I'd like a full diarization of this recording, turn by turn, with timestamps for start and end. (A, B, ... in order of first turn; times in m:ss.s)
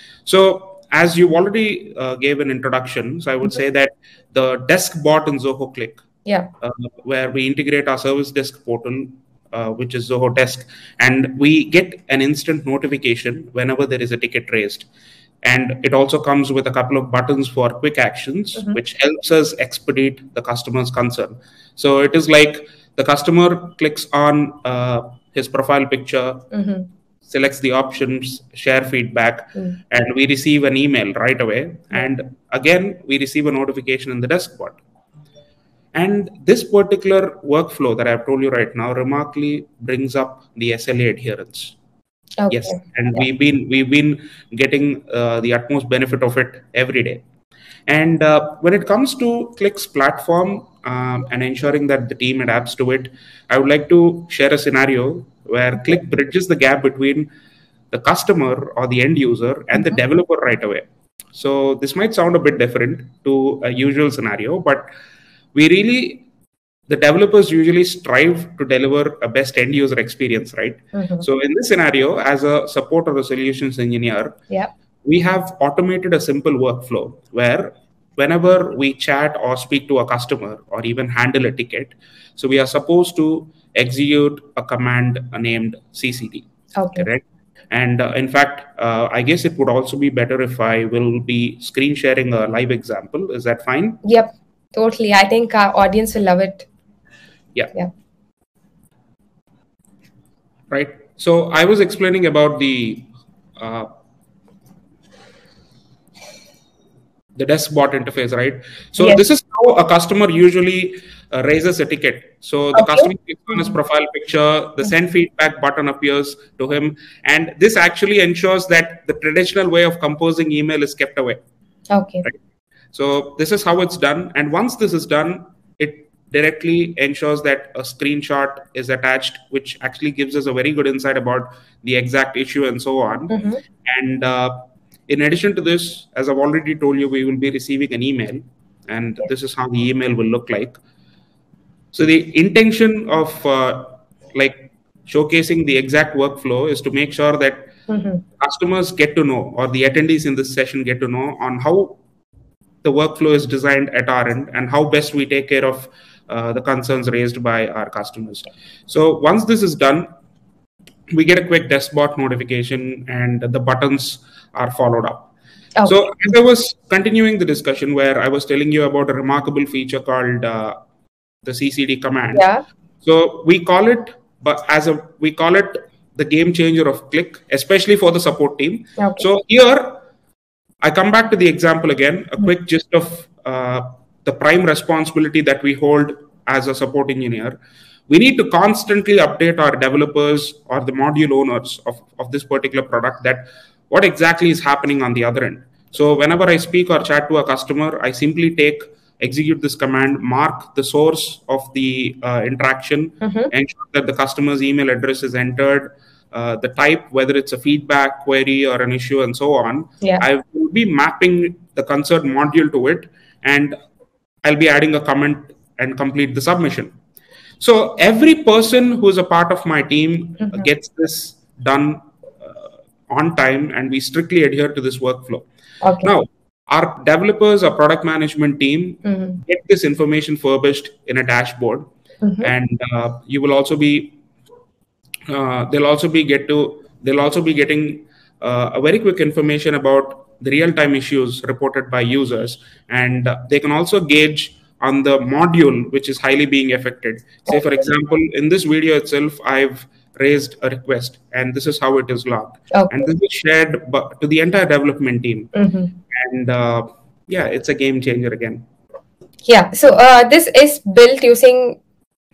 0:00.2-0:06.0 A
0:06.6-0:14.9 A
0:15.4-0:26.5 A
0:26.5-0:26.9 B
0:27.3-0:34.8 A
0:35.9-0:41.7 A
0:42.4-0:43.2 B
0:42.5-0:47.2 A
0:47.9-0:57.3 A
0:57.9-1:04.9 A
1:05.5-1:06.2 A
1:06.9-1:14.4 A
1:10.9-1:11.2 B
1:15.0-1:34.0 A
1:26.8-1:27.0 B
1:34.0-1:36.7 B
1:40.7-1:43.9 A
1:47.4-2:01.4 A
1:52.7-1:53.7 B
2:01.9-2:02.2 B
2:02.9-2:20.8 A
2:13.3-2:13.6 B
2:21.9-2:27.7 A
2:27.9-2:28.2 B
2:28.4-2:32.0 A
2:32.8-2:40.1 A
2:41.1-2:45.3 A
2:45.8-2:50.8 A
2:51.4-2:52.5 A
2:52.3-2:52.6 B
2:53.0-3:00.0 A
2:59.0-2:59.2 B
3:00.8-3:07.6 A
3:08.1-3:33.8 A
3:23.2-3:23.5 B
3:34.4-3:36.9 A
3:37.6-3:45.4 A
3:45.8-3:46.1 B
3:46.0-3:51.9 A
3:49.0-3:49.4 B
3:52.2-3:52.5 B
3:52.4-3:54.2 A
3:55.3-4:15.5 A
4:07.5-4:07.8 B
4:12.7-4:13.1 B
4:15.5-4:15.9 B
4:16.1-4:18.6 A
4:19.4-4:21.8 B